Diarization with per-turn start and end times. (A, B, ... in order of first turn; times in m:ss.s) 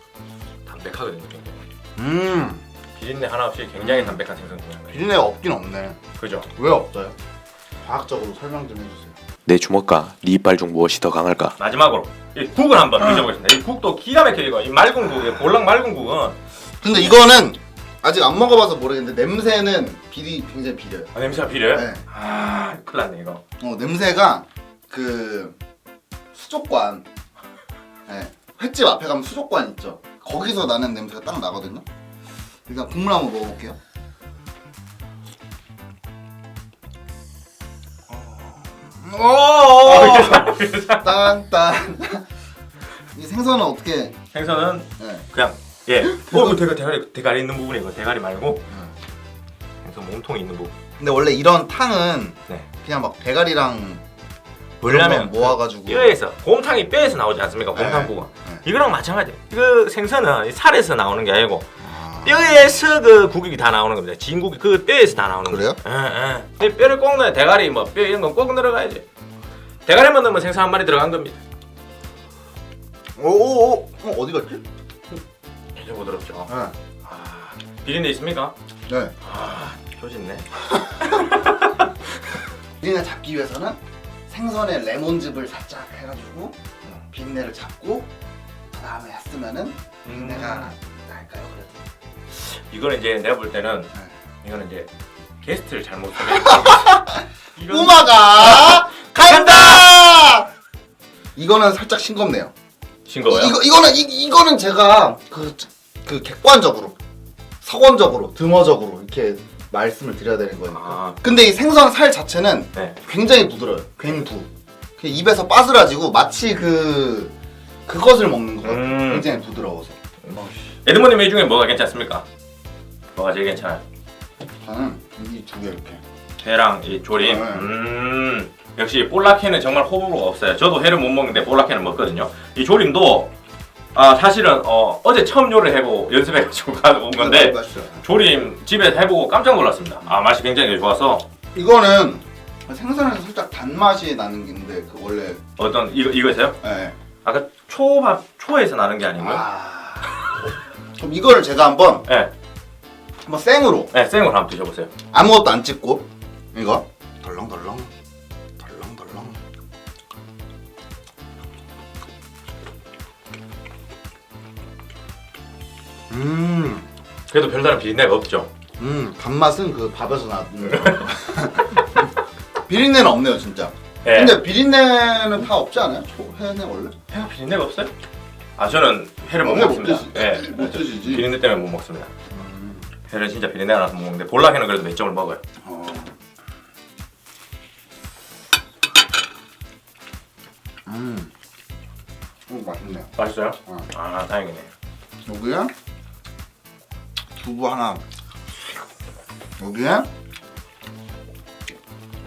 0:00.6-0:01.6 A
0:02.0-0:02.6 B
0:02.9-0:05.1 A
0:03.8-0:04.2 B
0:04.9-0:07.1 B
0:06.2-0:06.5 A
0:07.8-0:09.2 B
0:09.4-0:11.5 C
0:11.6-0:16.4 A
0:16.8-0:21.1 B
0:21.1-0:23.4 A
0:21.7-0:22.0 B
0:23.6-0:25.6 B
0:26.3-0:27.0 B
0:28.1-0:31.8 B
0:32.6-0:33.8 B
0:38.1-0:42.2 B
0:39.8-0:41.3 A
0:43.1-0:44.2 B
0:44.3-0:48.6 A
0:45.0-0:45.2 B
0:46.0-0:46.6 B
0:49.8-0:50.7 A
0:51.0-0:54.0 B
0:54.8-1:01.7 A
0:54.8-0:56.1 B
0:57.7-0:58.6 B
1:01.8-1:02.5 B
1:02.2-1:09.0 A
1:05.4-1:05.8 B
1:09.8-1:11.4 A
1:13.2-1:14.6 B
1:15.8-1:16.5 A
1:16.5-1:16.7 B
1:17.0-1:18.5 A
1:18.9-1:19.1 B
1:19.2-1:21.9 A
1:22.8-1:26.6 B
1:27.1-1:28.1 B
1:28.7-1:31.7 B
1:30.0-1:30.7 A
1:32.3-1:33.9 A
1:34.4-1:34.9 A
1:35.4-1:39.9 A
1:36.3-1:40.5 B
1:41.4-1:42.5 B
1:43.0-1:43.6 A
1:43.3-1:47.0 B
1:47.6-1:57.3 B
1:50.7-1:51.2 A
1:57.8-2:00.0 B
1:58.6-1:59.3 A
2:00.2-2:02.2 A
2:03.2-2:03.8 A
2:04.6-2:06.0 B
2:06.4-2:13.3 A
2:07.2-2:07.7 B
2:13.9-2:21.2 A
2:17.2-2:18.0 B
2:21.5-2:25.4 B
2:25.6-2:26.6 A
2:26.6-2:26.9 B
2:27.2-2:29.4 A
2:29.2-2:30.3 B
2:31.0-2:32.1 B
2:32.0-2:32.3 A
2:33.2-2:33.9 B
2:33.9-2:34.9 A
2:35.1-2:37.9 B
2:38.6-2:39.4 B
2:46.1-2:46.8 B
2:47.3-2:48.5 A
2:48.8-2:52.1 B
2:50.7-2:51.1 A
2:52.7-2:56.9 B
2:54.0-2:54.4 A
2:57.1-2:57.9 A
2:58.6-3:02.1 A
2:59.4-3:01.3 B
3:02.3-3:02.9 B
3:03.1-3:05.4 A
3:05.6-3:06.1 B
3:10.8-3:11.3 B
3:12.5-3:13.1 B
3:13.2-3:14.7 A
3:15.2-3:15.7 B
3:17.4-3:18.0 B
3:19.6-3:20.1 B